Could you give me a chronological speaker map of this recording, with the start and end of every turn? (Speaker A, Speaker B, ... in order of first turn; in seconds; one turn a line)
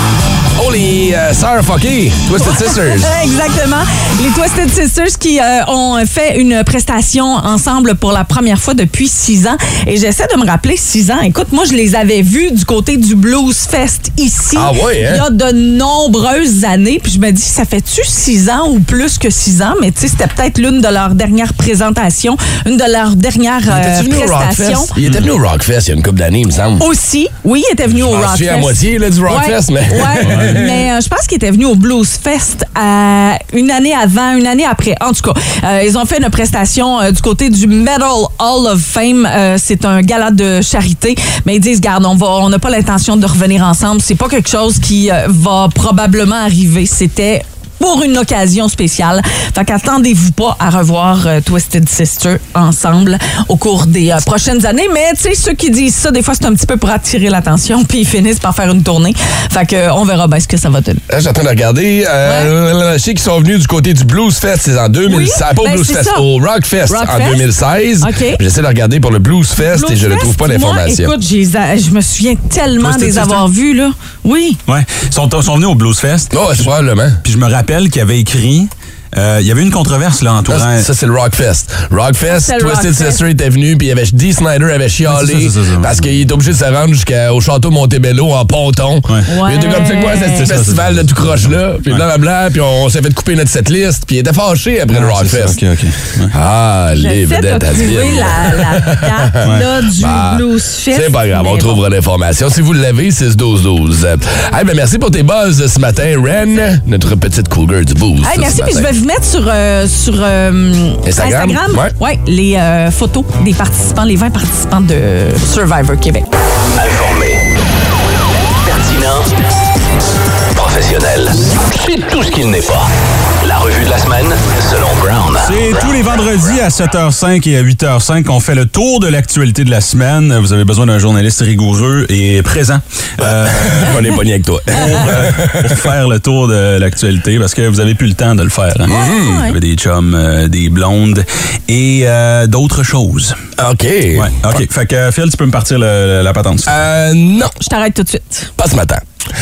Speaker A: 0.6-3.1
Speaker B: 2.4-24.9
Speaker A: 14.6-15.2
Speaker A: 23.7-26.9
Speaker C: 25.0-25.3
Speaker B: 26.8-61.0
Speaker A: 27.9-30.8
Speaker C: 30.2-30.7
Speaker A: 61.1-71.1
Speaker B: 62.2-62.5
Speaker B: 65.1-66.3
Speaker B: 66.9-67.5
Speaker B: 68.0-68.4
Speaker B: 69.6-74.6
Speaker C: 72.8-73.5
Speaker C: 74.7-76.5
Speaker A: 76.3-77.2
Speaker C: 77.2-80.9
Speaker A: 80.5-95.6
Speaker B: 82.3-83.2
Speaker C: 85.1-86.1
Speaker B: 89.3-90.5
Speaker C: 90.4-92.0
Speaker C: 94.9-96.3
Speaker A: 96.3-108.9
Speaker B: 97.0-101.8
Speaker B: 108.2-116.3
Speaker A: 111.0-111.9
Speaker D: 116.8-117.4
Speaker D: 118.6-119.3
Speaker D: 120.5-126.5
Speaker C: 125.4-134.0
Speaker A: 133.2-135.9
Speaker C: 134.7-143.4
Speaker A: 138.9-139.5
Speaker B: 138.9-139.5
Speaker A: 143.6-144.6
Speaker C: 144.2-146.8
Speaker A: 146.7-147.5
Speaker B: 147.6-148.5
Speaker A: 148.6-149.0